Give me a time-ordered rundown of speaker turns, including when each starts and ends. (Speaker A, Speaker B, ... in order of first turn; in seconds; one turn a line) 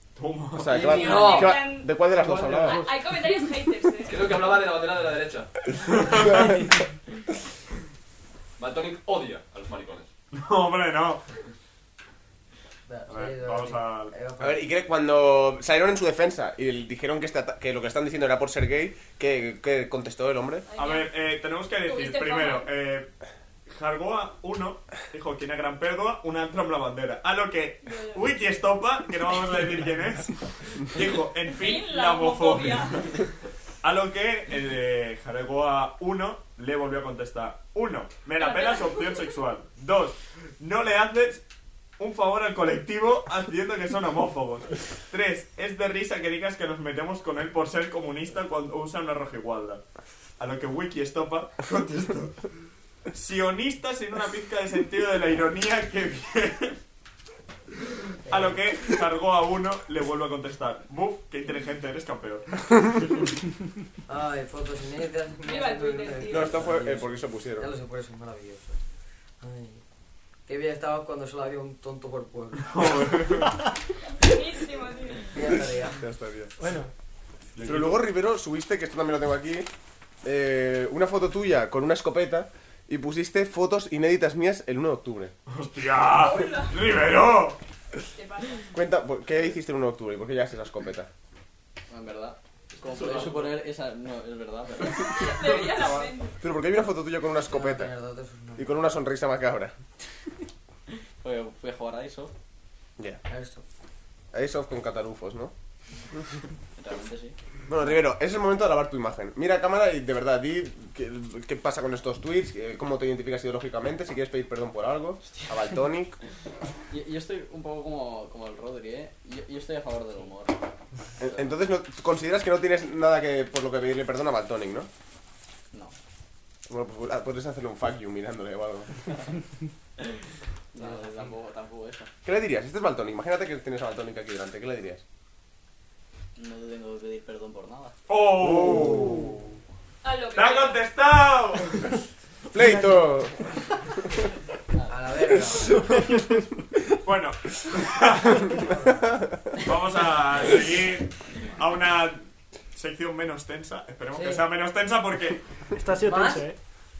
Speaker A: 0.1-0.9
Speaker B: 0.5-2.8
Speaker C: 0.7-4.3
Speaker D: 1.0-1.6
Speaker E: 2.1-3.0
Speaker F: 4.0-5.5
Speaker A: 6.0-6.4
Speaker F: 8.6-10.1
Speaker A: 10.3-11.2
Speaker D: 12.9-14.7
Speaker A: 13.1-14.1
Speaker B: 14.4-20.6
Speaker C: 20.7-21.1
Speaker A: 20.7-23.1
Speaker C: 21.8-22.7
Speaker A: 23.7-33.1
Speaker C: 27.8-28.4
Speaker C: 31.4-33.2
Speaker A: 33.8-41.4
Speaker C: 38.4-39.3
Speaker A: 42.0-49.8
Speaker A: 50.4-52.5
Speaker A: 53.1-56.8
Speaker A: 58.2-63.3
Speaker D: 64.1-68.8
Speaker C: 65.4-66.8
Speaker B: 66.3-67.7
Speaker D: 69.4-69.8
Speaker D: 70.5-72.9
Speaker A: 72.7-73.6
Speaker C: 74.1-75.4
Speaker D: 75.3-76.0
Speaker B: 75.9-76.5
Speaker E: 76.6-76.9
Speaker A: 77.5-78.0
Speaker B: 77.6-79.7
Speaker B: 80.2-85.3
Speaker A: 85.5-87.6
Speaker C: 86.1-86.8
Speaker C: 88.1-88.8
Speaker B: 88.7-91.1
Speaker G: 91.9-95.6
Speaker F: 92.8-93.5
Speaker C: 94.8-96.4
Speaker B: 96.4-97.9
Speaker D: 97.5-98.7
Speaker B: 98.6-99.7
Speaker G: 101.2-102.3
Speaker D: 103.3-103.6
Speaker B: 104.3-105.5
Speaker G: 106.8-107.3
Speaker B: 107.7-116.2
Speaker G: 116.9-120.6
Speaker B: 121.2-124.9
Speaker G: 121.2-121.6
Speaker G: 125.7-126.0
Speaker B: 126.7-128.9
Speaker G: 130.7-132.1
Speaker D: 130.8-131.3
Speaker B: 132.2-135.0
Speaker G: 136.3-137.9
Speaker A: 138.1-139.2
Speaker B: 138.4-139.5
Speaker C: 140.0-140.8
Speaker A: 140.3-142.0
Speaker B: 142.5-143.5
Speaker E: 142.6-143.1
Speaker D: 144.9-145.8
Speaker E: 145.6-146.4
Speaker A: 147.0-148.7
Speaker D: 148.6-148.9
Speaker A: 149.6-155.4
Speaker D: 154.1-154.4
Speaker E: 155.7-156.6
Speaker D: 156.0-156.4